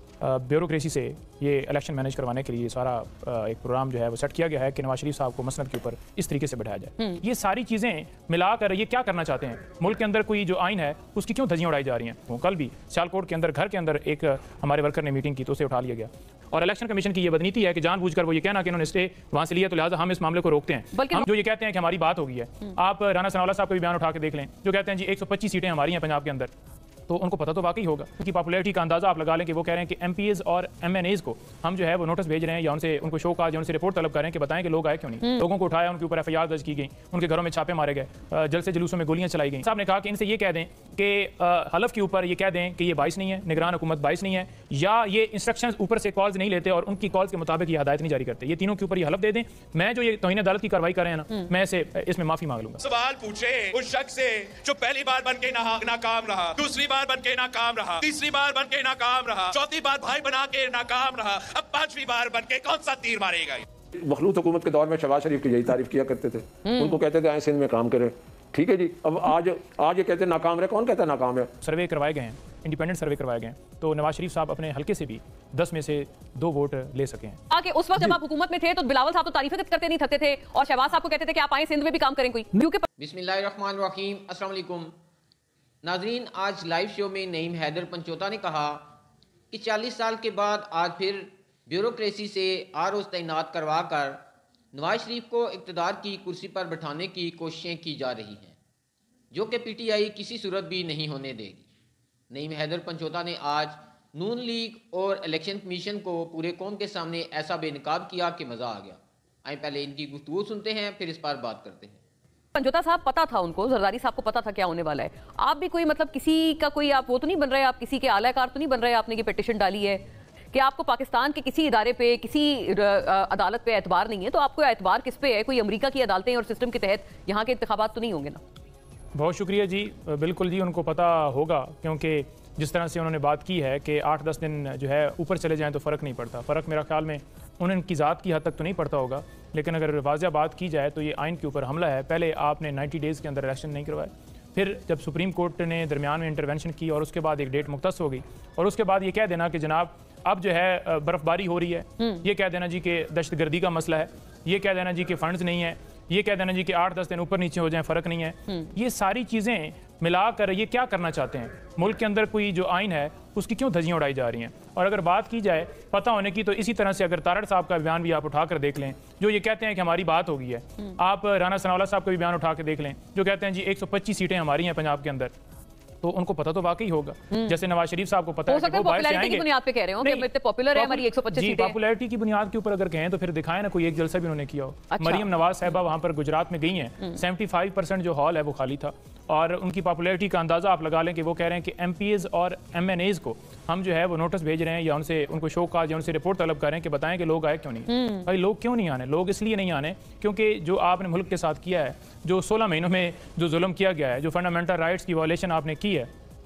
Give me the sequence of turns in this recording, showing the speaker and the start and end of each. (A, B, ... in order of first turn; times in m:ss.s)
0:00.2-0:26.5 A
0:20.9-0:21.3 B
0:27.1-0:52.8 A
0:35.2-0:35.5 B
0:52.8-1:03.6 C
1:04.0-1:11.5 D
1:06.6-1:07.0 B
1:11.6-1:17.4 A
1:17.5-1:22.9 B
1:23.0-1:24.9 E
1:25.8-1:28.9 E
1:29.5-1:34.2 E
1:34.7-1:38.6 E
1:39.3-1:41.6 E
1:42.3-1:52.0 E
1:52.5-2:08.4 B
2:09.1-2:55.3 A
2:56.0-2:59.5 A
2:57.3-2:57.6 B
2:58.5-3:01.8 B
3:00.0-3:26.1 A
3:04.9-3:05.2 B
3:17.9-3:18.3 B